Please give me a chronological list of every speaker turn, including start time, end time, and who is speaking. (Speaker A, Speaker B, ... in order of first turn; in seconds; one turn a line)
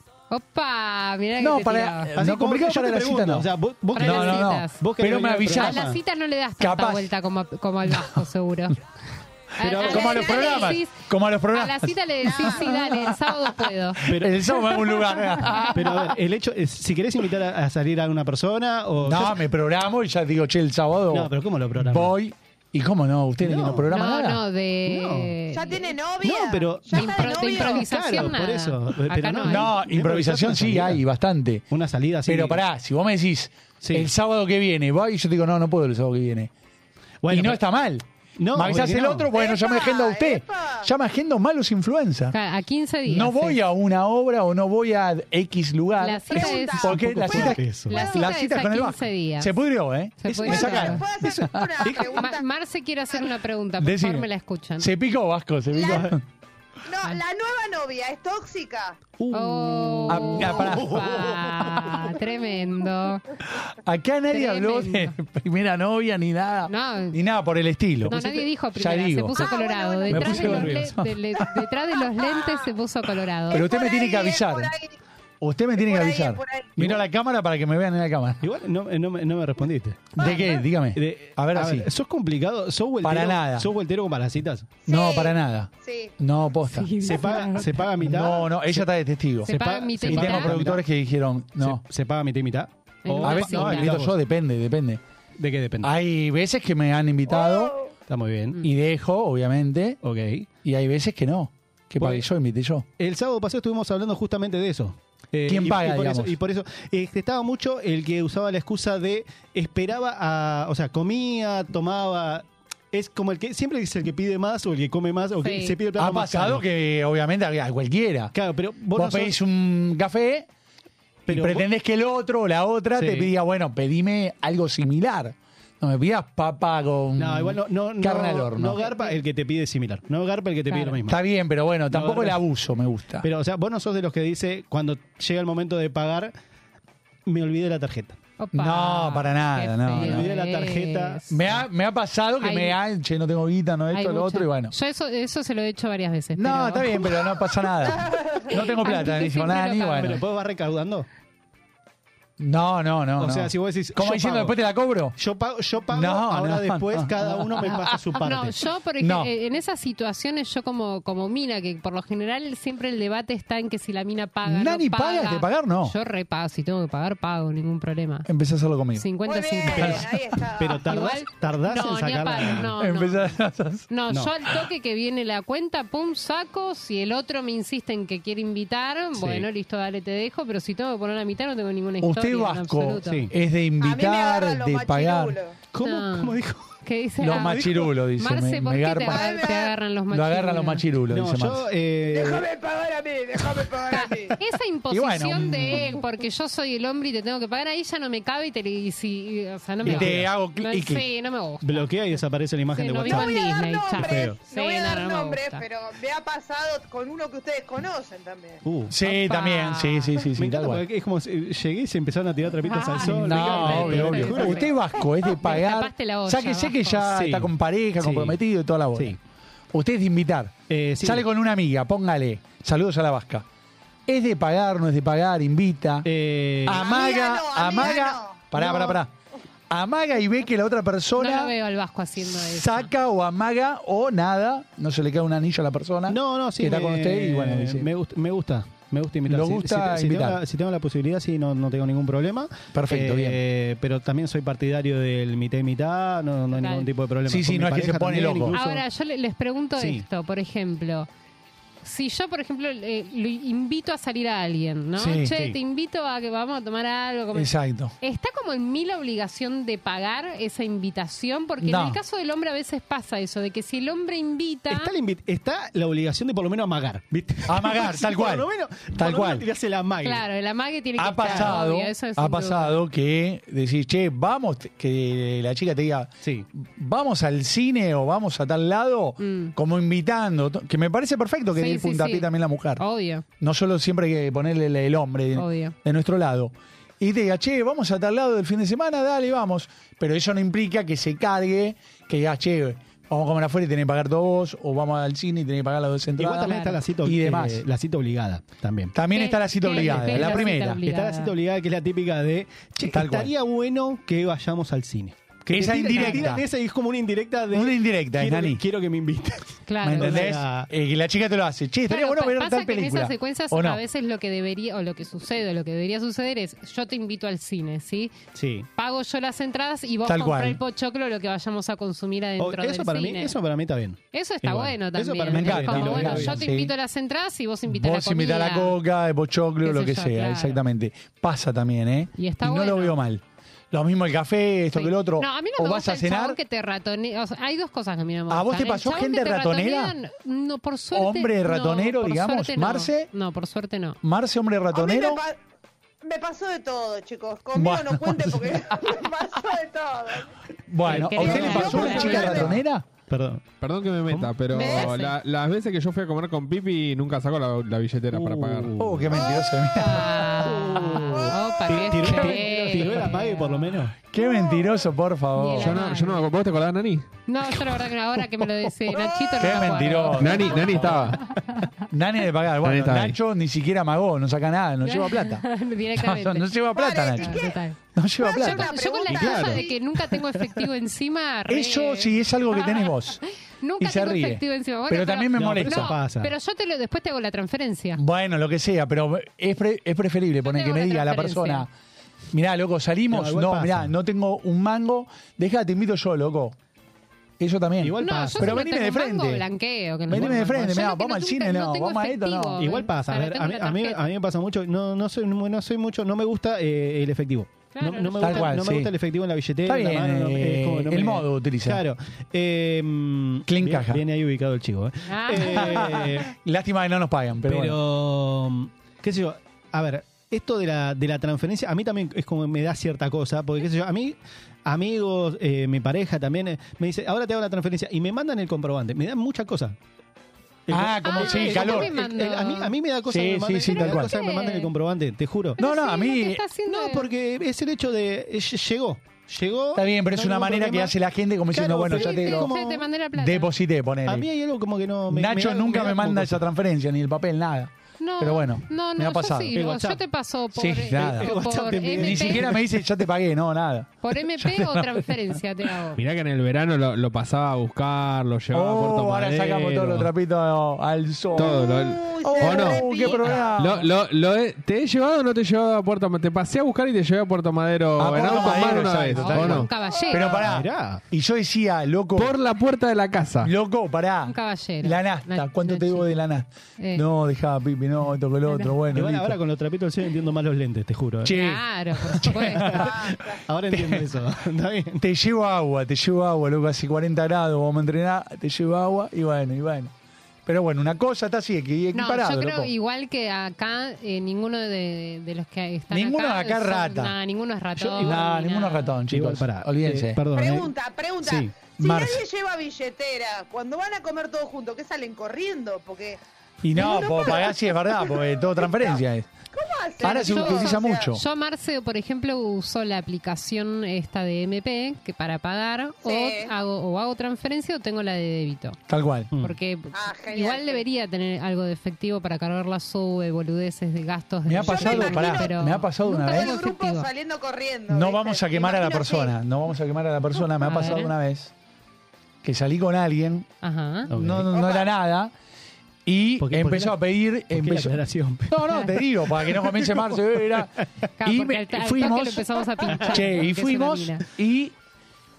Speaker A: 0.3-2.1
Speaker B: 1.4-5.8
Speaker C: 2.1-6.0
Speaker A: 4.0-4.8
Speaker A: 5.4-8.8
Speaker B: 6.6-7.1
Speaker B: 7.9-8.2
Speaker A: 9.6-14.1
Speaker C: 9.6-10.2
Speaker D: 9.8-10.8
Speaker B: 9.8-13.5
Speaker D: 12.2-12.7
Speaker C: 14.1-14.4
Speaker B: 14.1-16.0
Speaker A: 15.4-15.7
Speaker C: 15.7-19.4
Speaker B: 19.0-24.4
Speaker C: 21.1-22.1
Speaker C: 23.4-23.9
Speaker A: 23.9-26.0
Speaker C: 24.9-25.3
Speaker D: 25.5-28.3
Speaker C: 26.2-31.0
Speaker A: 26.9-29.8
Speaker B: 29.4-31.6
Speaker C: 31.7-32.6
Speaker B: 32.3-36.5
Speaker C: 33.8-34.1
Speaker C: 37.2-37.6
Speaker B: 37.3-42.4
Speaker C: 38.4-39.3
Speaker D: 39.3-40.9
Speaker A: 42.3-43.6
Speaker B: 43.1-51.9
Speaker A: 46.0-49.6
Speaker D: 46.3-47.0
Speaker C: 47.0-48.0
Speaker A: 50.2-51.0
Speaker D: 50.5-52.5
Speaker C: 50.5-50.8
Speaker C: 51.9-52.2
Speaker A: 52.0-54.9
Speaker B: 53.8-54.3
Speaker B: 54.8-56.2
Speaker D: 55.7-56.1
Speaker D: 56.9-59.0
Speaker C: 59.2-61.7
Speaker A: 59.3-63.2
Speaker B: 60.1-62.0
Speaker B: 63.6-68.2
Speaker A: 64.3-65.1
Speaker A: 66.7-67.2
Speaker A: 68.1-73.7
Speaker C: 68.1-68.4
Speaker B: 68.8-69.5
Speaker D: 69.4-70.3
Speaker B: 70.1-71.2
Speaker C: 70.1-70.9
Speaker D: 72.0-72.6
Speaker B: 73.5-74.7
Speaker D: 73.5-75.0
Speaker B: 75.4-78.5
Speaker D: 75.8-76.9
Speaker C: 78.4-80.2
Speaker B: 80.1-81.9
Speaker D: 80.2-80.7
Speaker C: 80.9-84.8
Speaker B: 83.0-83.7
Speaker D: 84.8-86.1
Speaker B: 84.9-86.9
Speaker A: 86.7-87.9
Speaker C: 87.0-88.9
Speaker B: 88.0-91.8
Speaker A: 89.5-90.6
Speaker C: 89.5-90.8
Speaker C: 91.6-94.2
Speaker A: 93.0-94.0
Speaker B: 93.2-95.0
Speaker C: 95.4-95.9
Speaker B: 95.8-97.8
Speaker D: 97.3-97.9
Speaker C: 98.1-98.6
Speaker B: 98.6-100.0
Speaker C: 100.0-100.5
Speaker B: 100.6-102.9
Speaker C: 102.0-102.3
Speaker C: 103.0-116.6
Speaker B: 105.5-106.4
Speaker A: 115.4-115.8
Speaker B: 116.0-118.3
Speaker C: 118.3-119.4
Speaker B: 118.9-120.5
Speaker C: 121.3-121.7
Speaker B: 121.3-128.8
Speaker C: 123.0-123.3
Speaker C: 127.2-131.2
Speaker A: 128.8-129.2
Speaker A: 130.7-131.0
Speaker B: 131.1-133.3
Speaker C: 131.9-132.4
Speaker C: 133.2-136.3
Speaker C: 137.3-138.2
Speaker A: 138.4-141.6
Speaker B: 138.5-140.3
Speaker C: 139.9-141.3
Speaker B: 141.3-144.7
Speaker A: 142.4-142.8
Speaker A: 143.9-147.2
Speaker B: 146.4-150.2
Speaker D: 147.9-148.6
Speaker A: 148.5-150.2
Speaker C: 150.0-151.1
Speaker B: 152.4-155.2
Speaker C: 153.2-154.6
Speaker C: 155.2-158.6
Speaker B: 155.9-158.0
Speaker A: 158.2-168.3
Speaker B: 159.0-159.3
Speaker B: 164.4-165.9
Speaker B: 168.3-169.1
Speaker A: 168.9-170.1
Speaker D: 169.2-170.9
Speaker B: 169.6-170.2
Speaker C: 170.6-172.8
Speaker A: 170.8-173.3
Speaker B: 172.8-173.9
Speaker A: 173.9-183.2
Speaker C: 179.2-179.5
Speaker B: 182.0-185.4
Speaker C: 183.1-183.3
Speaker D: 183.8-185.6
Speaker C: 185.7-187.9
Speaker A: 185.8-190.9
Speaker B: 187.2-189.4
Speaker D: 189.1-189.7
Speaker B: 190.1-191.7
Speaker C: 191.1-192.5
Speaker D: 192.1-194.4
Speaker A: 193.9-201.9
Speaker B: 194.9-195.8
Speaker C: 199.8-200.3
Speaker B: 199.8-201.1
Speaker C: 201.6-203.3
Speaker A: 202.7-205.6
Speaker D: 203.1-208.6
Speaker C: 204.0-204.4
Speaker C: 208.7-209.0
Speaker B: 208.9-210.8
Speaker A: 209.0-210.3
Speaker C: 210.4-214.7
Speaker A: 212.7-217.1
Speaker B: 213.1-219.2
Speaker C: 217.1-218.4
Speaker B: 219.7-223.5
Speaker C: 220.7-221.2
Speaker B: 224.1-226.1
Speaker C: 226.1-227.0
Speaker B: 226.7-229.1
Speaker D: 226.7-228.5
Speaker C: 228.6-228.9
Speaker B: 229.7-231.5
Speaker A: 231.2-232.9
Speaker B: 232.2-237.9
Speaker C: 236.1-248.8
Speaker B: 239.3-240.4
Speaker B: 242.7-243.4
Speaker A: 246.6-246.9
Speaker B: 247.3-248.5
Speaker A: 248.5-251.1
Speaker C: 249.8-250.1
Speaker A: 251.8-264.9
Speaker B: 255.0-255.3
Speaker C: 255.3-255.6
Speaker B: 257.3-257.9
Speaker B: 261.6-262.0
Speaker C: 264.7-270.2
Speaker B: 267.5-269.5
Speaker A: 270.0-272.8
Speaker B: 271.0-282.8
Speaker C: 271.2-271.6
Speaker A: 279.2-279.6
Speaker A: 281.6-283.2
Speaker B: 283.4-296.5
Speaker A: 285.4-285.8
Speaker C: 296.2-298.9
Speaker A: 296.4-296.8
Speaker B: 297.0-297.6
Speaker B: 298.9-300.8
Speaker A: 299.1-301.3
Speaker C: 299.7-310.7
Speaker B: 302.9-303.3
Speaker B: 305.5-306.4
Speaker A: 306.0-306.3
Speaker B: 307.5-308.6
Speaker A: 309.7-310.4
Speaker B: 309.8-313.8
Speaker A: 311.9-318.1
Speaker C: 318.3-318.7
Speaker A: 318.8-323.4
Speaker B: 320.1-320.6
Speaker C: 322.4-326.5
Speaker A: 324.1-328.8
Speaker B: 325.3-326.7
Speaker B: 327.7-336.4
Speaker A: 329.6-330.6
Speaker A: 332.2-333.0
Speaker A: 334.7-344.0
Speaker B: 338.3-339.9
Speaker B: 340.9-343.1
Speaker B: 344.0-345.2
Speaker D: 344.7-345.4
Speaker D: 346.0-350.3
Speaker B: 347.5-348.8
Speaker B: 350.7-352.9
Speaker A: 350.9-352.5
Speaker C: 350.9-352.5
Speaker D: 351.0-352.6
Speaker C: 353.1-353.5
Speaker E: 353.6-358.8
Speaker C: 354.1-354.9
Speaker D: 354.5-355.0
Speaker A: 354.6-355.1
Speaker C: 358.1-359.1
Speaker B: 358.8-361.2
Speaker D: 359.1-359.6
Speaker A: 359.7-363.7
Speaker C: 360.4-361.1
Speaker D: 361.1-362.0
Speaker C: 361.7-364.0
Speaker B: 364.1-365.8
Speaker D: 364.2-364.7
Speaker A: 365.4-366.2
Speaker E: 365.6-367.1
Speaker A: 367.3-370.8
Speaker D: 368.9-369.9
Speaker B: 369.4-371.2
Speaker E: 370.2-371.2
Speaker B: 371.9-377.4
Speaker E: 372.6-373.1
Speaker A: 374.8-376.5
Speaker D: 376.8-377.6
Speaker A: 377.1-388.0
Speaker B: 377.9-378.8
Speaker D: 378.2-379.8
Speaker E: 379.1-379.6
Speaker C: 380.4-380.6
Speaker B: 381.5-383.2
Speaker B: 383.8-385.9
Speaker C: 385.4-386.3
Speaker B: 388.0-391.7
Speaker A: 390.4-391.7
Speaker B: 392.3-396.6
Speaker C: 393.1-393.9
Speaker B: 397.4-399.4
Speaker C: 397.8-398.6
Speaker A: 398.0-404.0
Speaker B: 400.1-402.6
Speaker C: 400.1-400.5
Speaker C: 402.6-416.3
Speaker A: 407.7-408.6
Speaker B: 408.2-408.9
Speaker B: 409.6-411.8
Speaker B: 413.5-414.0
Speaker A: 415.1-416.0
Speaker B: 415.4-417.8
Speaker C: 417.4-429.8
Speaker C: 430.7-435.6
Speaker B: 430.7-431.9
Speaker A: 431.0-432.8
Speaker B: 433.1-434.1
Speaker A: 433.7-434.7
Speaker A: 435.6-437.1
Speaker B: 435.6-436.4
Speaker C: 436.6-440.9
Speaker B: 439.8-442.5
Speaker C: 441.5-442.9
Speaker A: 441.9-443.5
Speaker B: 443.2-444.3
Speaker C: 444.1-446.4
Speaker B: 445.1-449.6
Speaker A: 448.0-452.6
Speaker C: 449.6-450.0
Speaker B: 450.6-451.3
Speaker C: 450.9-452.5
Speaker B: 452.0-455.4
Speaker A: 454.0-456.0
Speaker E: 456.0-459.4
Speaker B: 458.5-463.9
Speaker C: 459.5-459.9
Speaker E: 461.4-469.7
Speaker D: 461.4-463.6
Speaker B: 468.0-472.4
Speaker A: 468.5-470.4
Speaker D: 470.0-470.4
Speaker C: 470.4-471.0
Speaker E: 472.2-473.5
Speaker B: 473.4-479.4
Speaker A: 474.3-476.1
Speaker A: 476.8-477.1
Speaker A: 478.5-478.8
Speaker C: 478.9-481.4
Speaker B: 481.2-484.1
Speaker A: 481.3-482.9
Speaker C: 482.5-482.8
Speaker D: 483.0-483.4
Speaker C: 483.5-485.0
Speaker B: 485.0-489.9
Speaker B: 490.5-492.7
Speaker A: 491.9-499.0
Speaker B: 495.9-497.1
Speaker C: 497.8-498.2
Speaker B: 498.0-500.2
Speaker C: 499.1-501.7
Speaker D: 500.3-506.2
Speaker B: 501.8-502.2
Speaker B: 506.6-509.3
Speaker D: 506.7-509.0
Speaker D: 509.5-511.1
Speaker A: 510.0-518.8
Speaker B: 510.0-511.2
Speaker D: 516.0-516.5
Speaker B: 518.9-519.3
Speaker A: 519.4-527.1
Speaker D: 519.9-520.8
Speaker B: 524.5-526.5
Speaker D: 524.6-529.3
Speaker B: 527.9-531.5
Speaker A: 530.6-531.1
Speaker B: 532.4-533.5
Speaker A: 533.6-534.1
Speaker C: 534.1-534.5
Speaker B: 534.1-535.3
Speaker D: 534.5-534.9
Speaker B: 536.1-544.7
Speaker C: 536.4-537.0
Speaker C: 537.5-538.6
Speaker A: 538.7-539.0
Speaker C: 539.6-540.2
Speaker A: 541.2-544.3